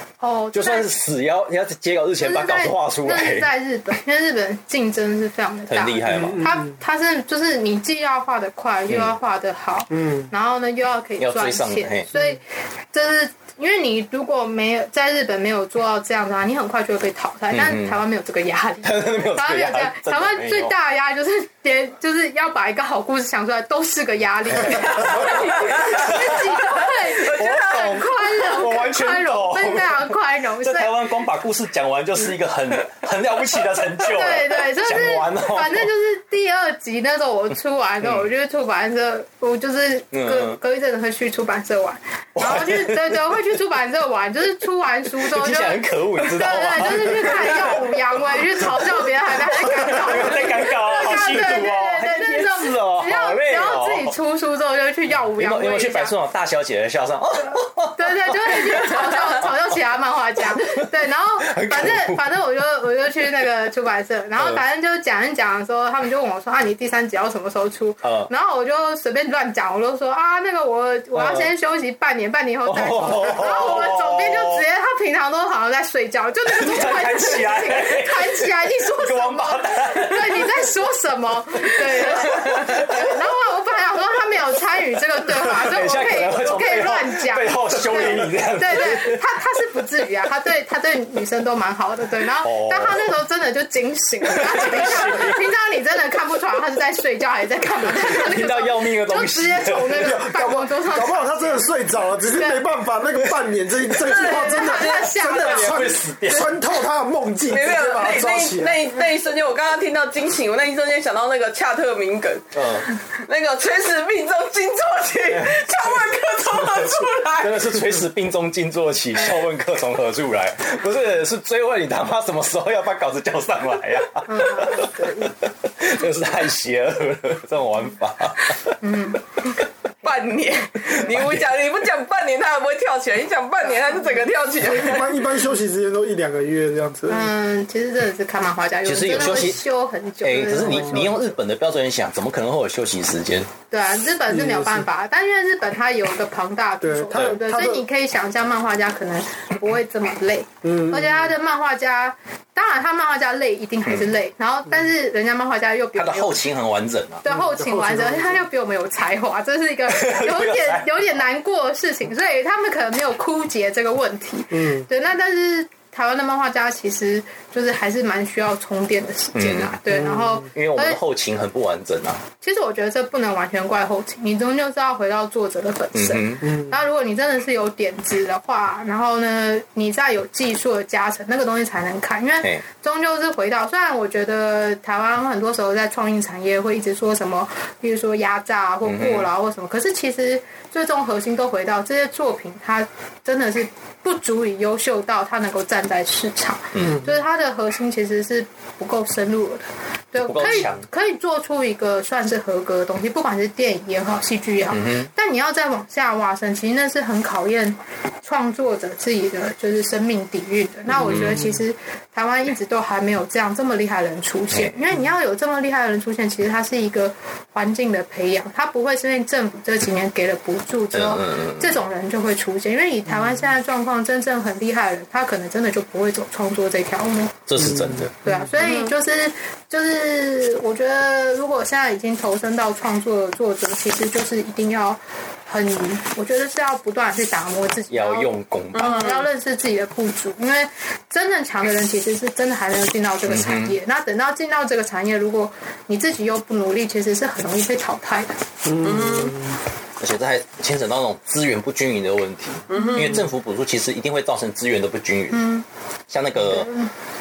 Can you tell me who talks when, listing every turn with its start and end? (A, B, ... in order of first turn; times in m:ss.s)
0:00.2-0:00.9 A
0:00.5-0:03.5 B
0:02.2-0:30.9 A
0:05.7-0:06.5 B
0:06.2-0:06.6 C
0:11.2-0:12.1 B
0:17.5-0:18.0 B
0:18.8-0:20.7 B
0:24.9-0:35.9 B
0:27.2-0:28.0 D
0:34.0-0:56.1 A
0:40.1-0:40.6 B
0:42.4-0:43.2 B
0:45.2-0:54.1 B
0:55.4-0:59.5 B
0:58.0-1:41.7 A
1:01.4-1:02.2 B
1:08.0-1:08.3 B
1:11.1-1:11.5 B
1:12.6-1:14.6 B
1:16.5-1:20.5 B
1:22.0-1:23.1 B
1:25.3-1:29.2 B
1:32.4-1:33.0 B
1:34.2-1:35.4 B
1:37.9-1:40.2 B
1:40.0-1:48.8 C
1:42.3-1:42.6 A
1:44.0-1:46.0 A
1:44.0-1:44.7 D
1:44.8-1:46.5 B
1:47.5-1:57.8 D
1:52.5-1:52.9 B
1:55.3-2:08.8 B
2:04.2-2:05.3 A
2:08.8-2:09.3 A
2:10.0-2:15.2 D
2:11.0-2:11.4 B
2:14.6-2:17.3 C
2:17.1-2:21.2 A
2:18.8-2:19.6 B
2:20.2-2:23.5 B
2:23.7-2:36.4 A
2:24.3-2:24.8 C
2:26.8-2:27.8 C
2:30.6-2:31.2 C
2:36.0-2:37.2 B
2:37.2-2:51.0 A
2:37.3-2:38.4 C
2:39.9-2:40.9 B
2:44.5-2:44.8 C
2:49.3-2:49.8 B
2:49.9-2:50.4 C
2:50.5-2:52.2 B
2:52.4-3:47.4 A
2:55.9-2:56.5 B
3:08.8-3:09.3 B
3:16.7-3:17.0 B
3:20.2-3:20.8 B
3:24.7-3:25.1 B
3:30.9-3:31.5 B
3:40.9-3:41.8 B
3:47.5-3:48.1 B
3:47.8-3:48.4 C
3:48.2-4:08.4 A
3:48.6-3:48.9 D
3:57.9-3:59.1 B
3:58.7-3:59.3 D
4:03.3-4:03.7 B
4:08.7-4:09.3 C
4:08.8-4:09.4 D
4:10.0-4:15.4 B
4:12.7-4:13.2 D
4:12.8-4:13.2 A
4:15.3-4:15.6 A
4:16.1-4:16.7 B
4:16.5-4:16.9 A